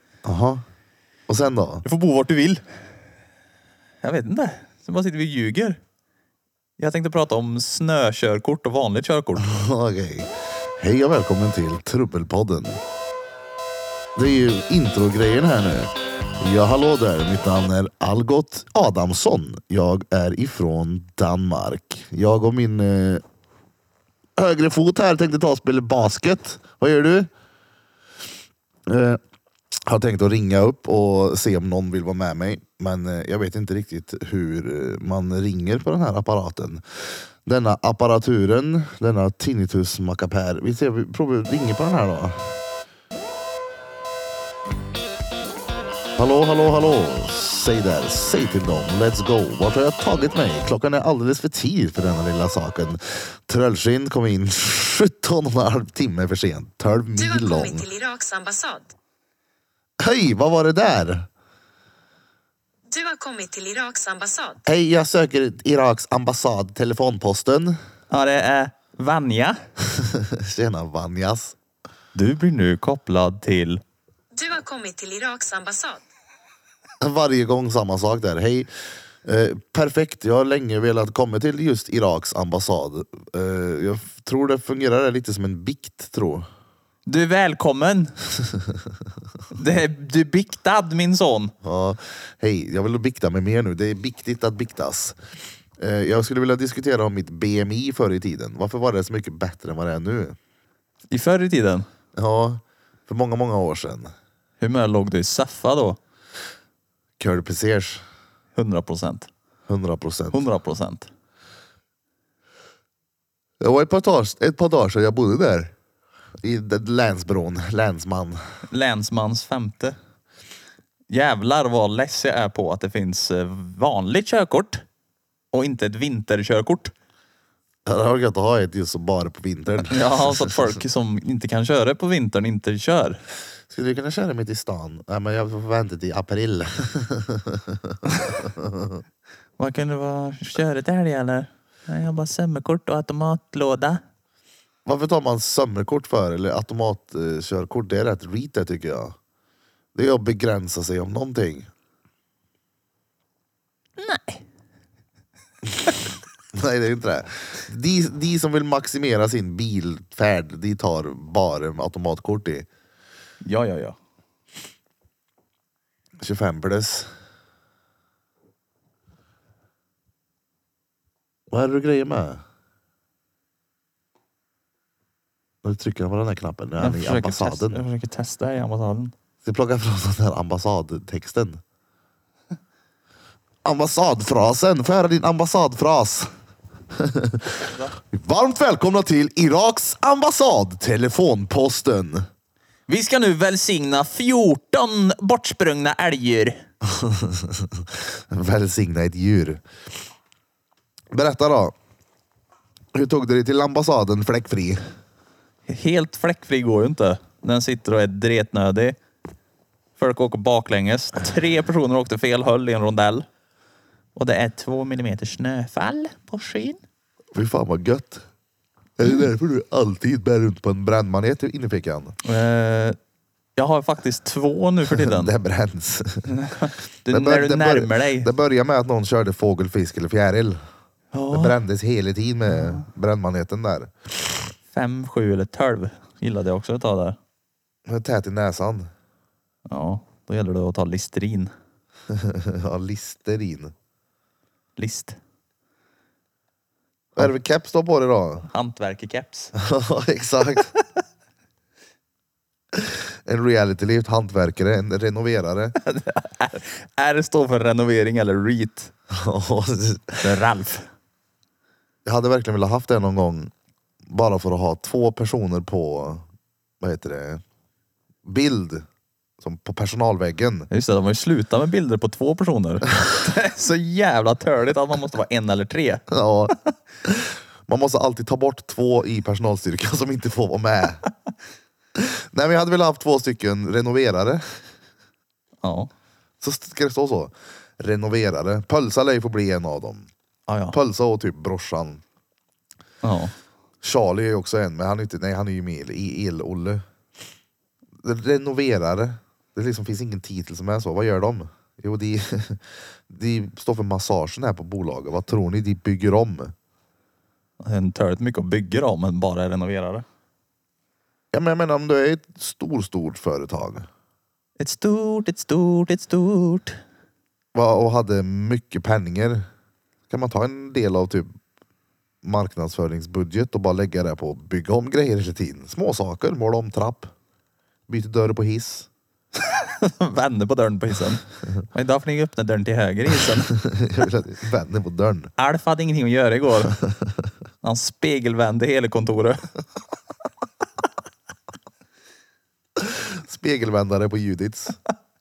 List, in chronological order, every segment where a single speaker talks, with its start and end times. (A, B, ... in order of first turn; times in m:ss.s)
0:00.2-0:00.6 A
0:01.3-0:01.8 A
0:01.8-0:02.6 B
0:04.0-0:05.8 B
0:06.8-0:09.6 B
0:09.4-0:12.8 A
0:14.2-0:23.2 A
0:24.4-0:27.3 A
0:28.9-0:29.2 A
0:29.8-0:42.6 A
0:46.2-0:57.8 A
0:57.2-0:58.9 C
1:00.0-1:01.3 A
1:02.9-1:04.6 C
1:04.6-1:07.8 A
1:08.1-1:09.6 B
1:09.9-1:11.6 A
1:12.1-1:13.8 B
1:14.3-1:16.0 C
1:17.0-1:18.7 A
1:19.2-1:26.5 A
1:27.1-1:28.2 B
1:29.5-1:31.5 B
1:31.6-1:35.2 A
1:35.8-1:40.4 A
1:41.1-1:41.9 B
1:42.2-1:44.1 A
1:44.6-1:46.0 B
1:47.2-1:48.0 A
1:48.5-1:49.3 B
1:49.7-1:50.4 A
1:50.3-1:51.1 B
1:53.6-1:55.7 A
1:56.4-1:58.4 A
1:58.7-2:00.0 B
2:01.1-2:04.8 B
2:05.5-2:06.9 B
2:07.8-2:10.6 A
2:09.9-2:13.2 B
2:13.7-2:19.0 A
2:19.6-2:24.0 B
2:24.8-2:29.2 A
2:29.9-2:31.7 A
2:34.0-2:34.4 B
2:36.5-2:42.7 A
2:43.4-2:44.0 B
2:46.2-2:47.1 A
2:51.5-2:52.4 A
2:55.6-2:57.8 A
2:56.8-2:59.1 B
2:59.4-3:01.6 A
3:03.6-3:06.3 A
3:06.9-3:12.2 A
3:07.7-3:07.9 B
3:12.9-3:16.6 B
3:16.8-3:19.6 A
3:21.1-3:21.7 A
3:22.9-3:24.8 A
3:25.7-3:29.0 B
3:30.0-3:33.2 B
3:34.1-3:36.8 B
3:37.3-3:38.2 A
3:39.0-3:42.2 A
3:42.2-3:43.0 B
3:43.6-3:45.3 B
3:44.9-3:46.3 A
3:46.3-3:48.3 B
3:47.1-3:50.6 A
3:51.1-3:51.6 B
3:51.3-3:53.9 A
3:52.5-3:52.8 B
3:54.7-3:57.2 B
3:57.9-3:58.9 A
3:59.7-4:01.5 B
4:02.1-4:03.7 A
4:04.8-4:05.2 B
4:07.2-4:08.5 A
4:08.5-4:09.5 B
4:09.6-4:10.7 A
4:12.7-4:15.8 A
4:15.8-4:18.9 B
4:19.1-4:20.2 A
4:20.2-4:20.9 B
4:22.0-4:23.5 A
4:24.0-4:26.2 A
4:26.8-4:27.4 A
4:28.2-4:28.8 A
4:29.4-4:30.7 A
4:30.7-4:36.7 B
4:36.1-4:41.0 A
4:42.0-4:44.4 A
4:45.6-4:45.9 B
4:46.4-4:50.1 A
4:50.5-4:50.8 B
4:50.7-4:52.0 A
4:53.0-4:53.3 B
4:53.8-4:56.8 A
4:58.0-5:06.5 A
5:07.6-5:10.0 B
5:11.3-5:13.9 A
5:14.6-5:16.8 B
5:17.5-5:19.4 A
5:20.1-5:21.3 A
5:22.2-5:27.1 A
5:27.9-5:28.9 A
5:29.5-5:33.5 B
5:33.5-5:35.3 A
5:35.4-5:36.8 B
5:36.6-5:37.1 A
5:37.6-5:39.4 B
5:42.8-5:44.8 A